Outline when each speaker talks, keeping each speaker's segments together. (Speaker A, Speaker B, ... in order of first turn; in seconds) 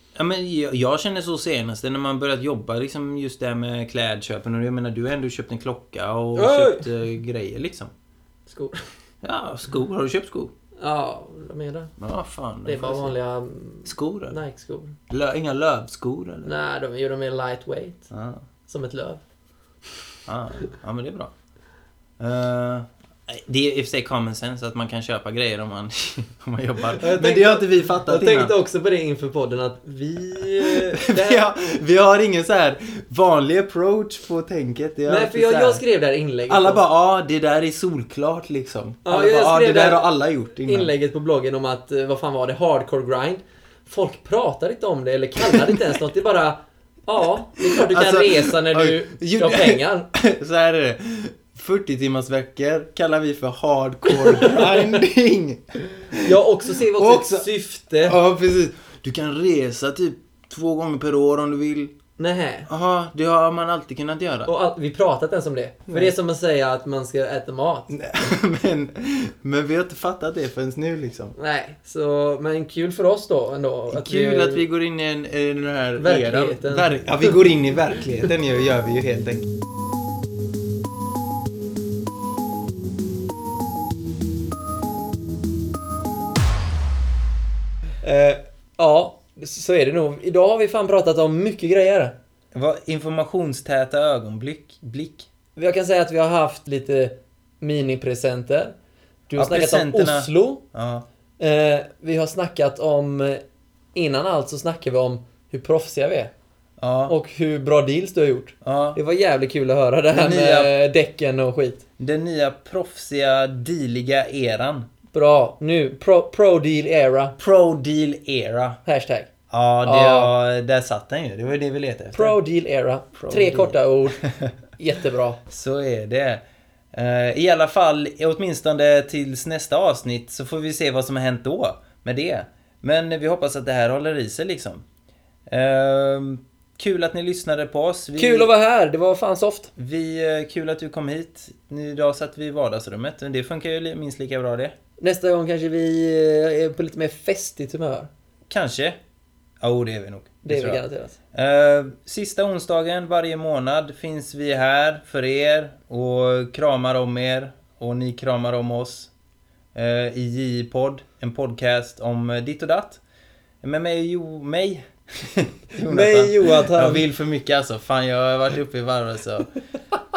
Speaker A: 0.1-7.9, 9.2-10.5, 12.0-13.1, 13.8-14.4, 15.1-16.5, 18.1-18.4, 20.3-21.3, 22.2-28.5, 30.6-35.8, 36.5-40.9, 45.5-45.8, 47.7-57.5, 58.0-62.0, 62.7-64.5, 67.9-71.3, 73.9-79.5, 92.5-95.3, 99.4-101.0, 106.8-107.1, 108.6-109.0, 110.1-110.7, 112.0-114.9, 117.4-118.8, 119.5-122.3, 123.2-124.5, 125.5-126.4, 126.9-134.8, 135.5-138.5, 139.8-144.7, 148.5-149.0, 149.6-159.1, 159.7-163.0, 163.6-169.5
Speaker B: 6.3-6.9, 8.5-8.8, 10.8-11.9, 12.6-15.0, 16.4-18.1, 18.7-19.2, 27.0-31.5, 35.1-36.8, 39.0-40.1, 40.6-50.1, 54.1-55.0, 56.2-58.2, 62.2-62.7, 64.5-67.9, 71.3-74.7, 76.0-77.4, 88.0-92.2, 95.5-98.7, 99.3-100.6, 101.4-103.4, 103.9-106.3, 107.1-111.8, 115.1-117.3, 118.8-119.3, 119.8-120.3, 122.1-124.2, 124.8-125.4, 138.2-139.7, 145.0-148.1, 150.4-151.2, 165.8-167.0